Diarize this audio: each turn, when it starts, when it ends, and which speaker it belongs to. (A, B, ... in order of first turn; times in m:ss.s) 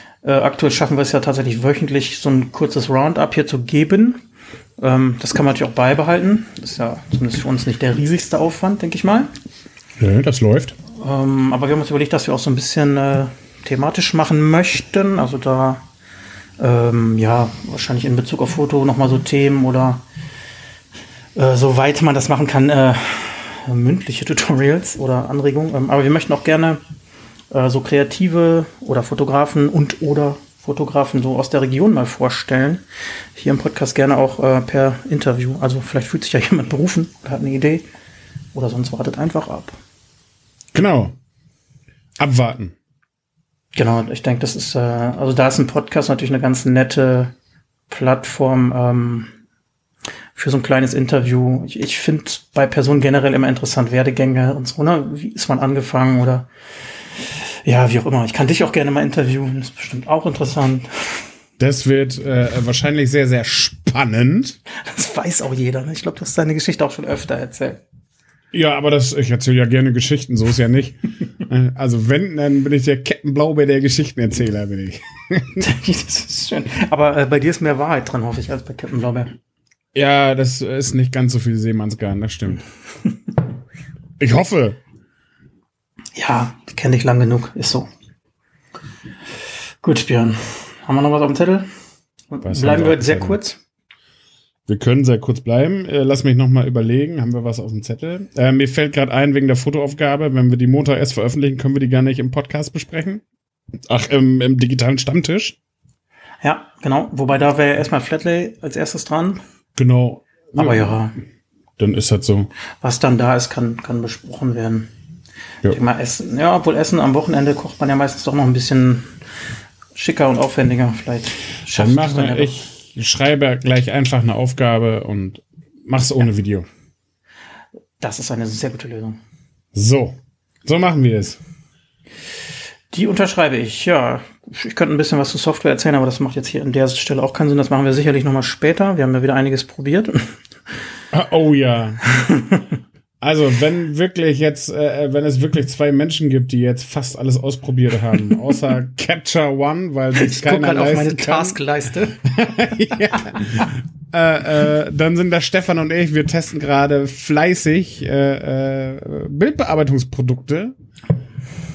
0:00.2-0:04.2 A
0:04.8-0:09.3 A
0:10.0-0:10.7 B
0:10.9-0:15.8 A
0:16.6-0:20.0 A
0:21.4-0:26.8 A
0:27.5-0:32.8 A
0:33.4-0:37.8 A
0:38.5-0:39.8 A
0:40.7-0:41.1 B
0:42.2-0:42.7 B
0:43.8-0:47.3 A
0:47.9-0:49.3 A
0:50.3-0:56.5 A
0:57.3-1:01.2 A
1:01.6-1:04.6 B
1:04.7-1:07.8 A
1:08.5-1:15.6 B
1:15.6-1:19.3 A
1:19.9-1:22.6 B
1:24.2-1:24.8 B
1:26.2-1:27.9 A
1:29.8-1:31.7 A
1:32.3-1:33.6 A
1:32.4-1:33.4 B
1:34.7-1:43.2 B
1:43.9-1:45.6 B
1:46.4-1:49.4 A
1:49.8-1:51.0 B
1:50.6-1:51.2 A
1:51.8-1:52.5 B
1:52.8-1:54.9 A
1:55.6-1:59.0 A
1:59.9-2:02.7 A
2:01.7-2:06.6 B
2:08.0-2:09.2 A
2:09.7-2:11.4 B
2:12.9-2:20.4 A
2:21.1-2:22.0 B
2:22.2-2:22.6 A
2:23.2-2:31.6 B
2:30.1-2:32.2 A
2:32.2-2:40.7 B